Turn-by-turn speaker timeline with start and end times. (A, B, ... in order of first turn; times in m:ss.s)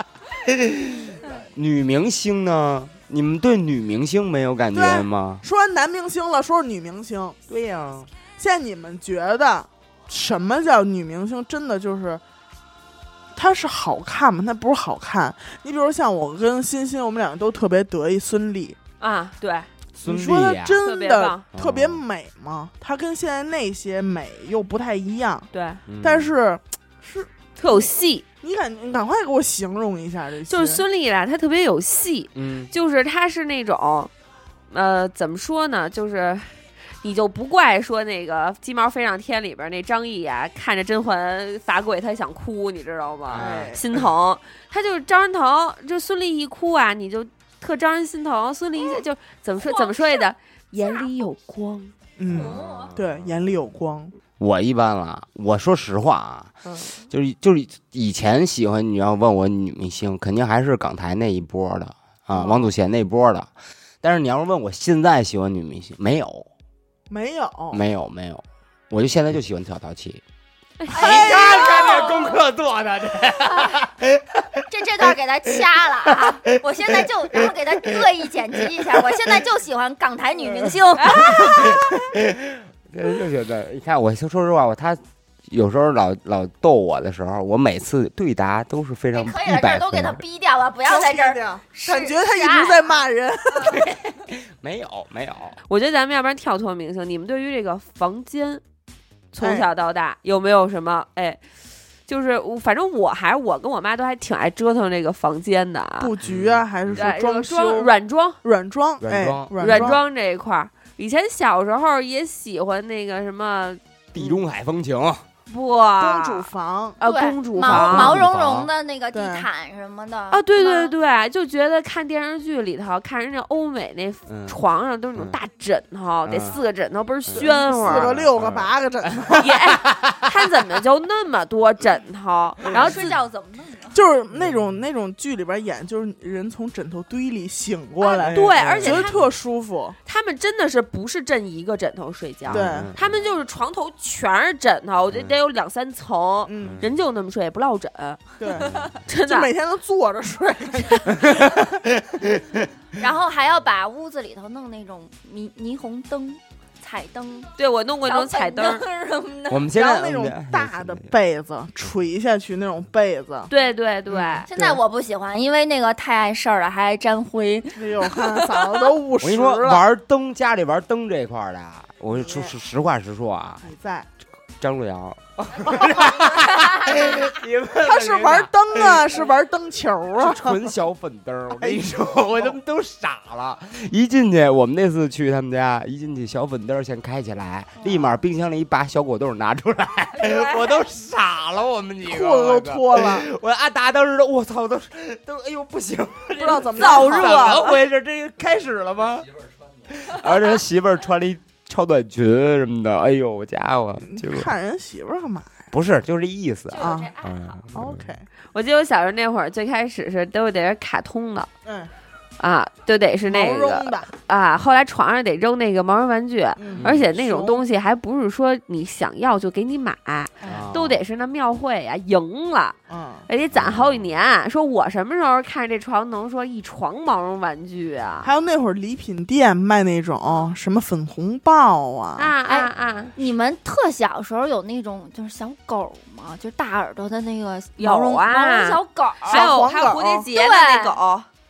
0:00.5-0:05.4 A
0:04.7-0:07.4 B
0:07.5-0:08.1 A
0:08.4-0:12.2 B
0:13.4-0:18.8 B
0:19.0-0:19.7 C
0:20.0-0:20.8 A
0:20.0-0:25.5 B
0:20.8-0:21.4 C
0:21.5-0:22.0 A
0:25.5-0:25.8 C
0:25.9-0:26.3 A
0:26.0-0:27.3 B
0:27.6-0:28.2 C
0:28.4-0:30.8 B
0:30.5-0:34.1 C
0:32.4-0:32.7 A
0:34.7-0:51.9 C
0:43.3-0:44.0 A
0:43.4-0:43.8 B
0:52.2-0:54.2 B
0:52.2-0:53.3 A
0:52.4-0:52.9 D
0:54.4-0:56.5 A
0:56.6-0:57.0 C
0:57.1-1:03.5 A
1:04.0-1:06.5 A
1:07.1-1:07.8 B
1:07.7-1:10.2 A
1:10.8-1:11.3 C
1:10.9-1:15.1 A
1:10.9-1:12.4 D
1:11.0-1:12.0 B
1:13.4-1:13.8 D
1:14.7-1:21.9 D
1:16.9-1:18.1 A
1:18.8-1:19.1 A
1:20.4-1:30.2 A
1:29.1-1:33.0 D
1:30.9-1:33.8 B
1:33.6-1:35.6 A
1:35.7-1:38.6 C
1:39.3-1:41.4 C
1:39.4-1:39.7 B
1:42.1-1:46.1 C
1:46.0-1:50.0 B
1:46.2-1:47.0 A
1:47.0-1:48.4 C
1:49.0-1:50.0 A
1:49.6-1:53.8 C
1:54.1-1:55.2 A
1:55.5-1:56.5 C
1:56.0-1:57.0 B
1:57.0-1:58.2 C
1:57.0-2:00.9 D
1:57.6-1:58.7 A
1:59.1-1:59.5 B
2:00.3-2:08.1 C
2:04.3-2:04.6 A
2:06.2-2:06.6 A
2:07.3-2:10.3 A
2:07.3-2:09.5 B
2:09.3-2:13.1 C
2:12.7-2:14.0 D
2:13.9-2:20.0 B
2:18.0-2:18.4 D
2:18.3-2:19.2 C
2:18.6-2:19.2 A
2:20.1-2:29.5 C
2:22.5-2:23.1 A
2:22.5-2:23.0 B
2:26.5-2:26.8 B
2:26.6-2:26.9 A
2:28.4-2:31.6 B
2:28.6-2:28.9 A
2:31.1-2:32.7 A
2:33.0-2:37.5 D
2:37.6-2:38.8 C
2:38.0-2:39.7 D
2:39.5-2:41.1 A
2:39.7-2:43.5 B
2:43.5-2:44.5 C
2:44.1-2:44.8 B
2:44.5-2:48.8 D
2:47.7-2:49.8 B
2:49.2-2:53.6 A
2:52.2-2:52.5 B
2:53.6-2:54.1 B
2:54.6-2:59.1 A
2:55.7-2:57.2 B
2:57.8-3:00.7 B
3:00.2-3:19.3 A
3:01.5-3:02.6 B
3:07.8-3:08.1 B
3:10.2-3:10.7 D
3:12.0-3:13.3 B
3:16.4-3:17.6 B
3:16.6-3:17.8 C
3:19.9-3:24.5 A
3:24.1-3:25.7 B
3:25.7-3:28.1 A
3:26.7-3:27.6 D
3:26.8-3:27.1 B
3:27.7-3:28.3 B
3:28.5-3:31.5 C
3:31.6-3:31.9 B
3:32.4-3:42.8 C
3:33.3-3:34.1 B
3:36.6-3:37.6 B
3:36.8-3:37.1 A
3:40.4-3:40.7 B
3:40.4-3:41.0 A
3:42.9-3:43.3 B
3:43.3-3:48.3 C
3:43.5-3:44.1 A
3:48.2-3:52.4 B
3:52.2-3:53.1 C
3:52.4-3:59.5 D
3:57.8-4:01.3 C
3:59.3-4:00.3 B
4:00.3-4:01.0 D